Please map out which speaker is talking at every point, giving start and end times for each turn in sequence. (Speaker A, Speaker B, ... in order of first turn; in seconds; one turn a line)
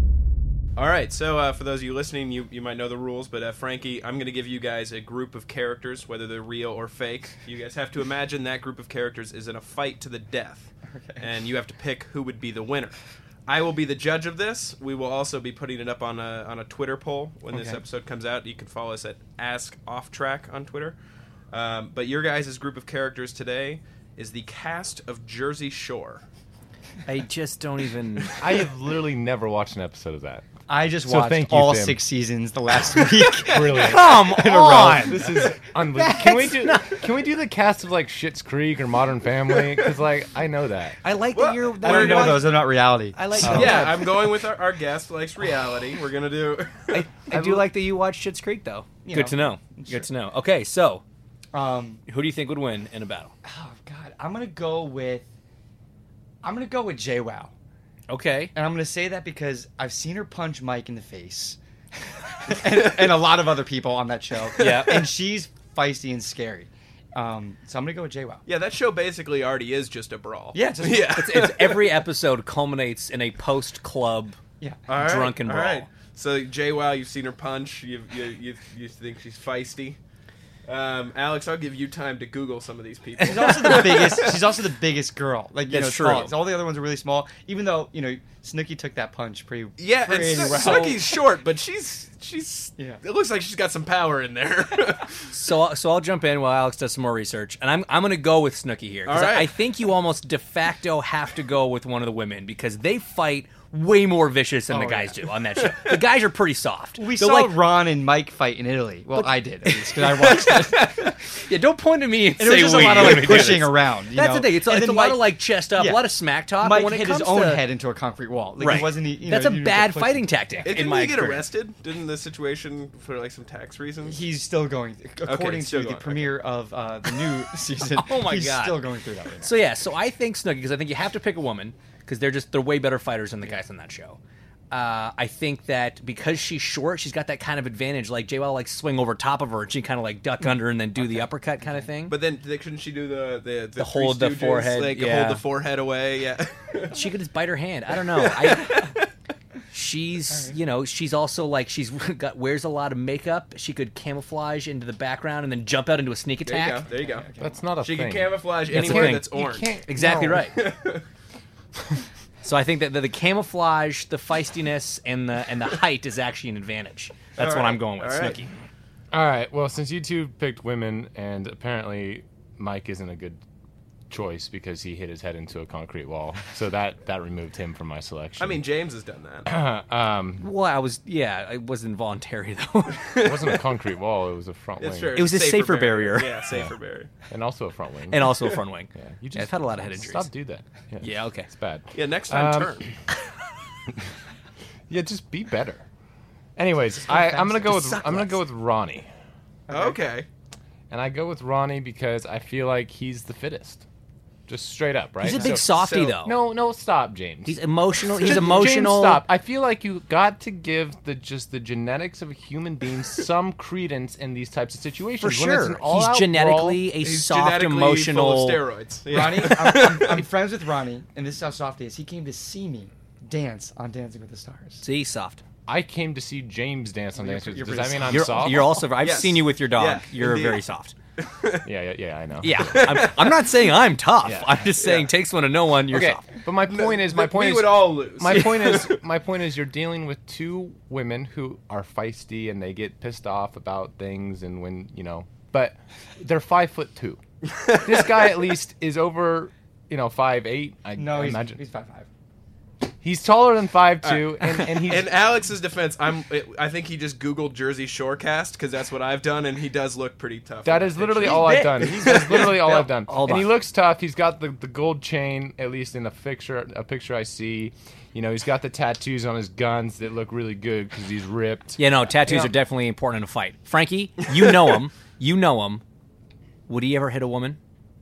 Speaker A: 0.8-21.0
Speaker B: 10.9-11.3
Speaker B: 17.5-17.8
Speaker A: 21.5-26.2
Speaker C: 27.1-28.4
Speaker D: 28.4-30.4
Speaker B: 30.7-35.5
Speaker D: 31.1-32.0
Speaker D: 33.3-34.2
Speaker C: 33.7-35.3
Speaker D: 35.1-41.0
Speaker C: 35.9-37.0
Speaker C: 41.0-44.0
Speaker A: 41.3-42.5
Speaker B: 41.8-43.9
Speaker A: 43.4-47.1
Speaker D: 43.4-43.9
Speaker C: 46.9-51.0
Speaker B: 47.3-47.7
Speaker B: 49.0-50.1
Speaker B: 51.5-52.0
Speaker C: 52.1-53.3
Speaker B: 53.5-55.2
Speaker B: 56.4-57.5
Speaker C: 58.1-58.5
Speaker B: 58.5-61.6
Speaker B: 62.3-68.4
Speaker C: 64.6-65.0
Speaker A: 68.5-71.8
Speaker B: 70.5-71.3
Speaker C: 71.1-74.4
Speaker A: 74.9-80.0
Speaker C: 74.9-75.9
Speaker A: 80.7-84.5
Speaker B: 83.2-91.1
Speaker C: 85.7-86.3
Speaker A: 89.8-95.2
Speaker C: 90.3-91.0
Speaker C: 95.3-107.6
Speaker A: 99.1-99.5
Speaker B: 104.7-105.2
Speaker B: 107.0-111.2
Speaker C: 109.2-117.6
Speaker B: 112.4-120.3
Speaker C: 118.6-121.5
Speaker A: 120.7-124.2
Speaker B: 124.0-129.6
Speaker A: 125.2-126.4
Speaker C: 127.9-128.8
Speaker C: 129.4-134.2
Speaker C: 134.7-142.2
Speaker A: 142.1-147.0
Speaker C: 143.8-145.4
Speaker C: 146.9-148.9
Speaker A: 148.5-149.0
Speaker C: 149.7-156.8
Speaker B: 150.3-150.6
Speaker A: 156.5-157.3
Speaker B: 156.9-157.6
Speaker D: 157.4-160.5
Speaker A: 157.8-159.7
Speaker C: 158.7-160.6
Speaker A: 160.4-161.0
Speaker C: 162.4-168.5
Speaker A: 167.4-168.4
Speaker D: 169.1-173.4
Speaker D: 174.1-178.6
Speaker A: 178.4-179.5
Speaker D: 179.5-180.4
Speaker C: 180.4-183.2
Speaker D: 183.2-185.3
Speaker A: 184.8-187.1
Speaker C: 185.2-186.4
Speaker D: 187.3-192.9
Speaker C: 188.1-190.3
Speaker C: 191.0-191.5
Speaker A: 191.9-192.9
Speaker D: 194.9-195.8
Speaker D: 196.6-199.1
Speaker C: 197.1-198.4
Speaker B: 199.7-200.0
Speaker A: 199.7-200.3
Speaker D: 200.9-203.8
Speaker D: 204.5-207.6
Speaker C: 205.2-206.4
Speaker A: 205.6-206.2
Speaker C: 207.4-209.2
Speaker D: 208.2-216.8
Speaker C: 215.2-218.6
Speaker A: 217.0-220.3
Speaker B: 219.1-224.8
Speaker C: 224.8-225.4
Speaker D: 225.7-228.8
Speaker B: 227.2-228.7
Speaker C: 228.1-230.9
Speaker A: 229.0-230.6
Speaker A: 231.2-231.7
Speaker D: 231.6-233.1
Speaker C: 232.4-236.3
Speaker A: 232.7-233.5
Speaker D: 234.2-234.7
Speaker A: 234.8-235.1
Speaker D: 235.9-247.2
Speaker A: 236.5-239.0
Speaker A: 247.6-248.1
Speaker D: 247.7-251.6
Speaker B: 251.0-252.1
Speaker D: 253.0-255.2
Speaker A: 254.0-262.6
Speaker D: 260.6-272.6
Speaker B: 261.2-262.8
Speaker C: 262.4-263.5
Speaker C: 271.8-275.8
Speaker C: 276.7-277.6